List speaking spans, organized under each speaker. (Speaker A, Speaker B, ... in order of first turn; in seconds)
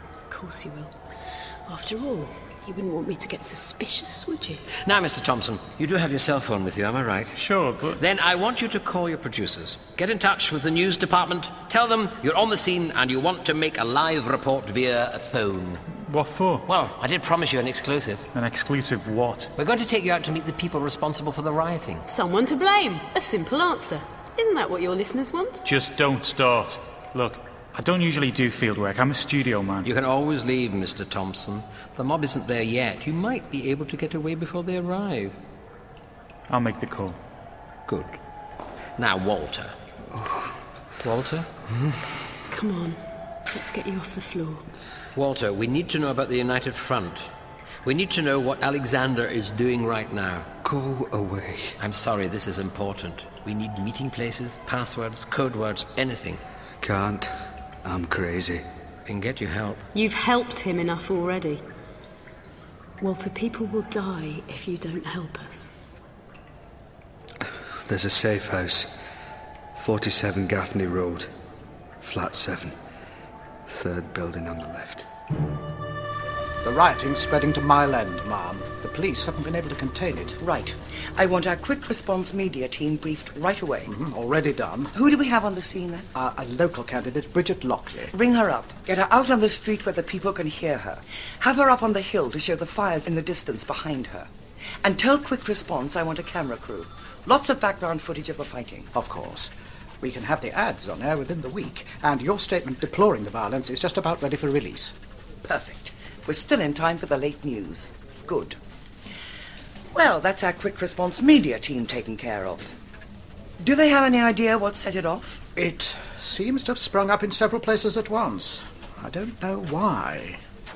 Speaker A: 0.3-0.9, 1.7-4.7, 22.1-25.7, 42.5-44.6, 59.9-61.6, 63.0-65.7
Speaker B: 4.8-7.4, 8.0-15.8, 16.7-18.3, 19.6-22.1, 29.8-35.4, 37.9-38.2, 39.0-39.7, 41.0-41.5, 45.1-47.3, 47.8-50.5, 51.8-56.4, 59.1-59.9
Speaker C: 7.3-8.0, 16.0-16.6, 18.3-19.5, 25.6-29.9, 36.5-37.2
Speaker D: 40.1-40.5, 50.6-51.7, 56.8-57.3, 57.9-58.6, 67.8-68.9, 69.7-71.3, 72.0-72.8, 73.7-75.1
Speaker E: 76.6-80.4, 83.9-84.9, 86.1-88.1, 98.9-105.0, 115.6-120.4
Speaker F: 80.4-83.9, 84.9-86.1, 88.1-94.3, 94.8-98.9, 105.4-108.6, 109.9-112.7, 113.6-115.4